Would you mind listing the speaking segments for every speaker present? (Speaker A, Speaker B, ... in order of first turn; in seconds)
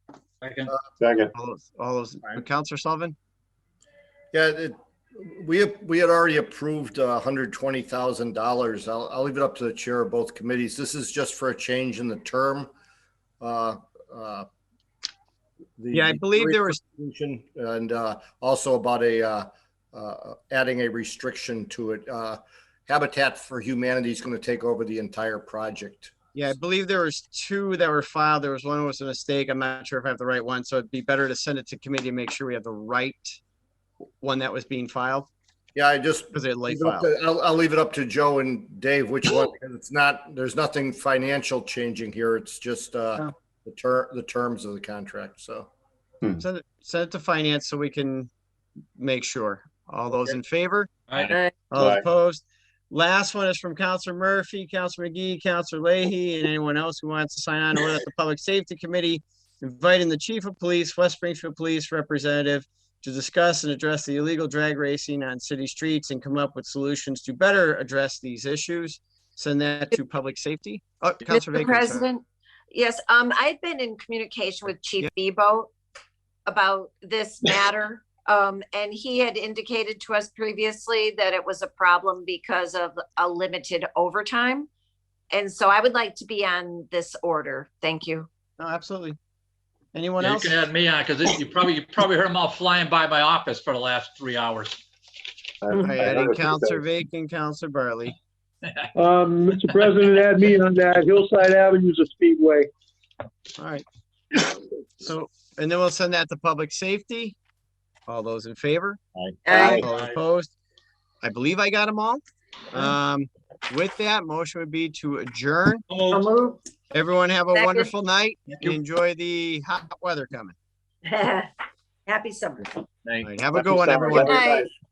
Speaker A: 0.4-0.7, 51.1-51.4, 90.2-94.8, 109.8-110.2, 115.9-116.3
Speaker B: 1.0-1.3, 51.8-52.0, 95.6-96.8, 123.5-124.7
Speaker C: 1.3-3.1, 15.9-16.8, 26.3-33.4, 34.2-35.3, 36.3-37.1, 46.4-48.3, 49.0-50.9, 51.7-72.1, 88.6-89.2, 89.9-90.7, 95.8-98.2, 103.6-103.8, 105.0-107.4, 108.1-110.5, 111.2-115.8, 116.9-120.6, 123.2-124.5
Speaker D: 4.3-12.7, 13.4-14.5, 15.8-26.1, 35.8-45.7
Speaker E: 71.3-75.7, 76.5-84.7, 85.3-88.3, 109.5-109.8, 116.1-116.6, 117.5-117.9, 121.1-121.5, 122.1-122.7, 124.2-124.7
Speaker F: 99.0-102.7